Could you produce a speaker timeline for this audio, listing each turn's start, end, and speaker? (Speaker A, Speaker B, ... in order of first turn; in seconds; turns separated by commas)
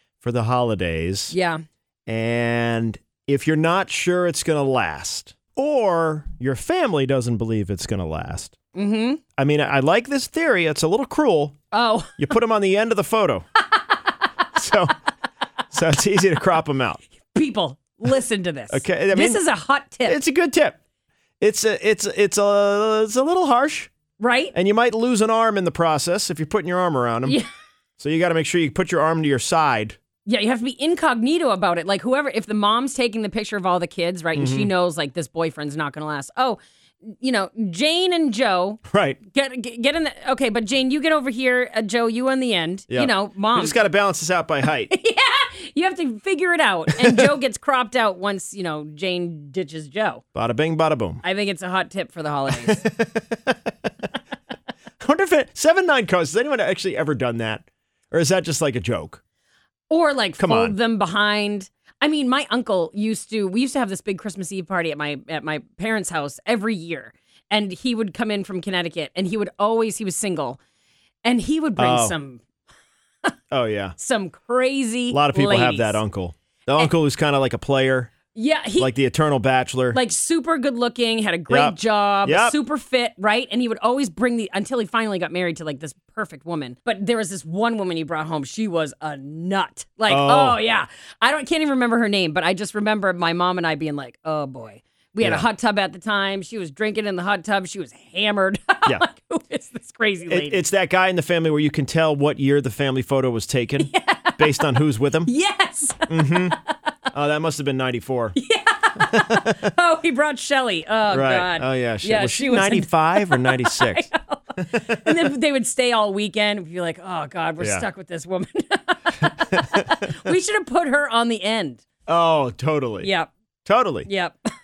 Speaker A: 0.2-1.3, Speaker B: 1.3-1.6, Speaker A: 2.1-8.6, Speaker B: 8.7-9.2, Speaker A: 9.4-11.6, Speaker B: 11.7-12.3, Speaker A: 12.2-13.4, Speaker A: 14.5-14.9, Speaker A: 15.7-17.0, Speaker B: 17.3-20.2, Speaker A: 18.7-19.4, Speaker A: 20.1-20.8, Speaker A: 21.4-23.9, Speaker B: 24.2-24.5, Speaker A: 24.5-27.4, Speaker A: 28.0-30.0, Speaker B: 30.2-43.8, Speaker A: 34.4-34.7, Speaker A: 38.9-39.2, Speaker A: 42.9-44.9, Speaker B: 44.9-50.2, Speaker A: 50.3-51.2, Speaker B: 51.2-52.8, Speaker A: 52.6-53.6, Speaker A: 55.0-59.2, Speaker B: 59.9-70.6, Speaker A: 60.4-60.8, Speaker B: 71.2-72.4, Speaker A: 71.8-72.1, Speaker A: 73.5-73.9, Speaker B: 74.0-76.0, Speaker A: 75.1-78.1, Speaker B: 78.3-78.9, Speaker A: 78.8-80.0, Speaker B: 79.9-100.6, Speaker A: 81.5-82.5, Speaker A: 90.1-90.6, Speaker A: 95.2-95.5, Speaker A: 100.3-105.3, Speaker B: 103.8-104.7, Speaker B: 105.2-106.7, Speaker A: 106.1-106.6, Speaker A: 107.1-108.4, Speaker B: 108.3-121.8, Speaker A: 109.0-109.4, Speaker A: 111.1-114.1, Speaker A: 114.6-115.3, Speaker A: 117.6-117.8, Speaker A: 119.5-119.8, Speaker A: 122.1-123.1, Speaker B: 123.0-123.3, Speaker A: 123.7-124.1, Speaker B: 124.0-124.5